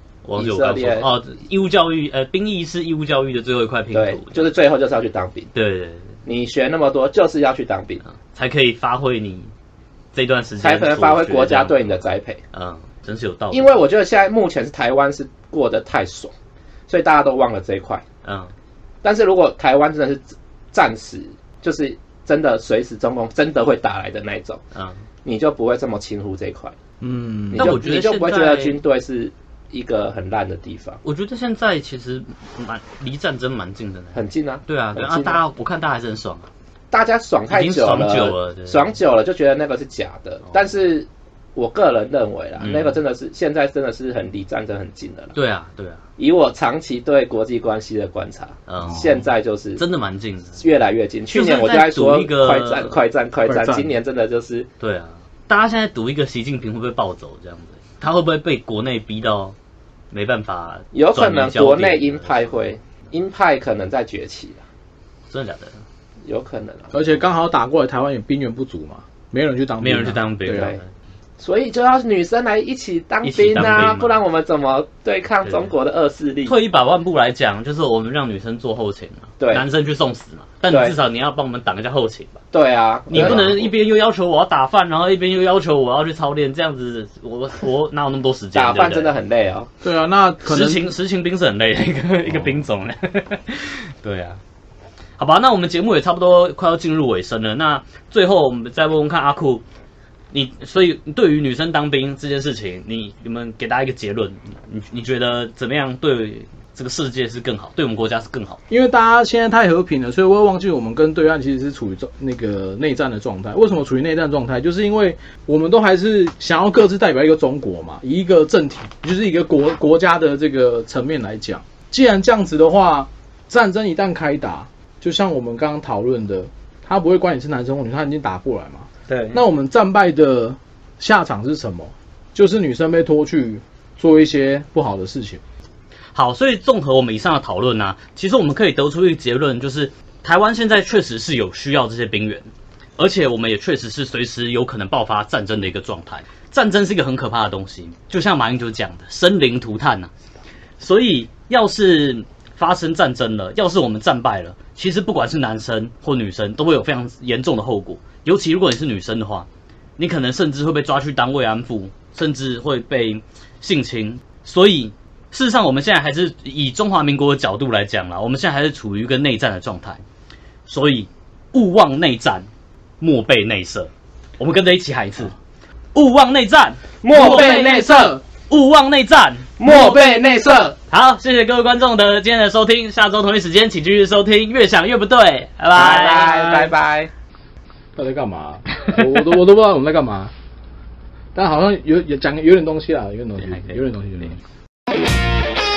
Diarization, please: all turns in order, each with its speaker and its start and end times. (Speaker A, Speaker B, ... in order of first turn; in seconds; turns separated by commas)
Speaker A: 0.2-4.5, Speaker B: 0.4-1.1, Speaker B: 3.9-5.5, Speaker A: 5.5-6.1, Speaker B: 6.2-8.0, Speaker A: 8.2-9.5, Speaker A: 10.1-13.7, Speaker B: 10.6-12.4, Speaker B: 13.5-16.3, Speaker B: 16.9-18.0, Speaker A: 18.2-18.5, Speaker B: 19.0-24.6, Speaker A: 24.7-25.0, Speaker B: 25.2-26.8, Speaker C: 27.0-27.8, Speaker B: 27.5-31.0, Speaker A: 27.5-28.8, Speaker A: 31.0-36.5, Speaker B: 34.1-35.4, Speaker B: 36.9-45.3, Speaker A: 37.5-38.9, Speaker A: 42.6-43.0, Speaker A: 45.4-46.0, Speaker B: 46.2-49.8, Speaker A: 48.7-49.2, Speaker A: 49.8-50.6, Speaker B: 50.6-54.7, Speaker A: 51.3-53.0, Speaker C: 53.4-54.0, Speaker A: 54.8-59.5, Speaker A: 60.1-62.5, Speaker B: 60.9-64.6, Speaker A: 65.3-65.8, Speaker B: 66.2-66.9, Speaker C: 66.9-70.8, Speaker A: 69.8-70.9, Speaker B: 70.5-70.8, Speaker B: 71.4-76.6, Speaker A: 73.2-74.2, Speaker A: 76.5-82.4, Speaker B: 79.4-79.7, Speaker B: 80.7-81.0, Speaker B: 82.5-83.7, Speaker A: 83.1-89.1, Speaker B: 88.5-89.7, Speaker C: 89.8-90.9, Speaker A: 90.4-94.4, Speaker A: 95.2-99.6, Speaker A: 100.3-108.6, Speaker C: 108.7-135.4, Speaker A: 129.1-129.4, Speaker A: 136.1-150.1, Speaker A: 150.8-170.0, Speaker A: 170.7-172.5, Speaker A: 173.0-175.3, Speaker A: 175.9-177.8, Speaker B: 177.0-178.2, Speaker C: 177.1-178.2, Speaker A: 178.5-179.5, Speaker B: 179.6-180.8, Speaker C: 179.7-180.7, Speaker A: 180.9-186.5, Speaker B: 185.7-187.1, Speaker C: 188.0-190.3, Speaker C: 191.3-194.4, Speaker A: 193.4-194.3